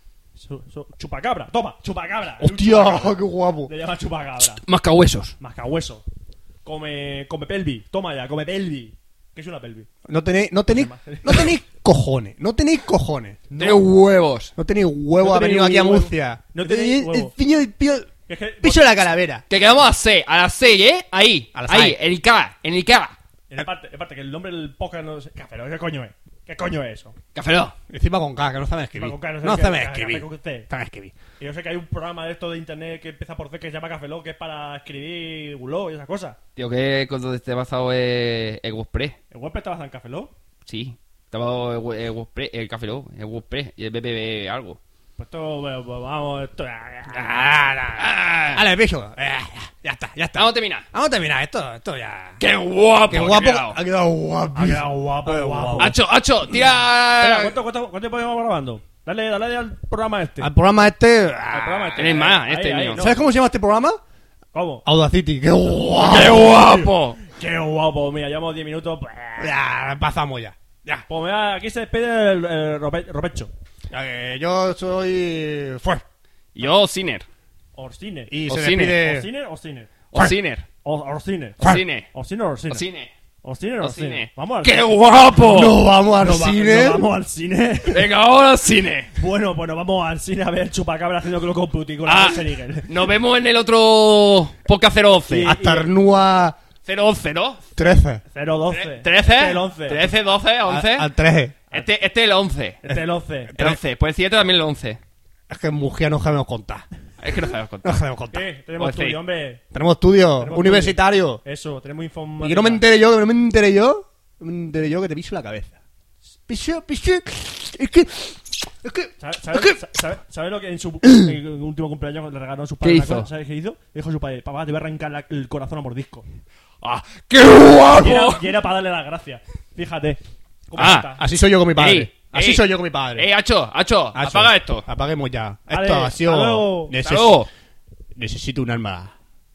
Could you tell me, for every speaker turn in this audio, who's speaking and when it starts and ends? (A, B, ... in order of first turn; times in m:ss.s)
0:00.4-0:04.6 A
0:02.4-0:03.7 B
0:04.6-0:05.3 C
0:05.4-0:06.0 A
0:06.6-0:09.9 A
0:10.1-0:13.4 B
0:10.7-0:11.6 A
0:13.5-0:13.9 A
0:13.6-0:14.5 C
0:14.6-0:19.4 B
0:15.2-0:17.3 A
0:18.3-0:19.1 A
0:19.5-0:23.2 C
0:21.6-0:22.0 B
0:23.5-0:27.2 A
0:27.4-0:27.7 C
0:27.9-0:31.1 B
0:29.0-0:30.7 A
0:31.4-0:36.4 A
0:36.6-0:39.2 C
0:39.3-0:40.3 A
0:40.7-0:44.8 C
0:45.2-0:47.6 A
0:47.1-0:52.4 B
0:48.0-0:48.6 C
0:50.4-0:50.8 C
0:52.4-0:53.8 C
0:53.1-0:56.0 B
0:54.6-0:56.0 A
0:55.8-0:57.6 C
0:57.1-1:00.5 A
1:00.4-1:02.2 B
1:01.5-1:03.2 A
1:02.0-1:03.1 C
1:03.0-1:04.0 B
1:04.5-1:04.8 A
1:04.8-1:06.6 B
1:06.0-1:07.2 C
1:06.0-1:09.6 A
1:09.4-1:11.0 B
1:11.1-1:13.5 A
1:13.9-1:16.0 B
1:16.6-1:17.3 C
1:17.8-1:18.4 A
1:18.3-1:19.3 B
1:18.5-1:19.0 C
1:18.9-1:19.9 A
1:20.1-1:20.7 C
1:20.8-1:22.8 A
1:21.6-1:22.1 C
1:22.7-1:23.1 C
1:23.4-1:24.9 A
1:23.8-1:25.8 C
1:25.4-1:27.0 B
1:26.1-1:28.1 A
1:27.8-1:29.1 C
1:29.2-1:33.0 A
1:32.0-1:35.6 C
1:35.3-1:35.9 A
1:35.4-1:36.6 B
1:36.8-1:37.6 C
1:37.8-1:38.2 B
1:38.3-1:40.2 A
1:38.7-1:41.1 C
1:40.6-1:41.6 B
1:41.7-1:43.0 C
1:42.8-1:43.6 A
1:43.5-1:43.8 B
1:43.6-1:45.0 C
1:45.5-1:46.8 B
1:47.2-1:48.0 C
1:47.8-1:48.5 B
1:48.3-1:49.6 A
1:48.8-1:49.2 C
1:49.7-1:51.4 B
1:50.4-1:52.9 A
1:52.4-1:55.8 B
1:56.5-1:59.8 B
1:59.2-2:06.2 A
2:02.8-2:03.3 C
2:06.8-2:08.5 C
2:07.9-2:11.2 A
2:10.8-2:11.1 C
2:11.2-2:13.3 B
2:11.8-2:14.9 C
2:14.1-2:17.4 B
2:15.7-2:17.0 A
2:17.0-2:17.5 C
2:18.2-2:19.1 B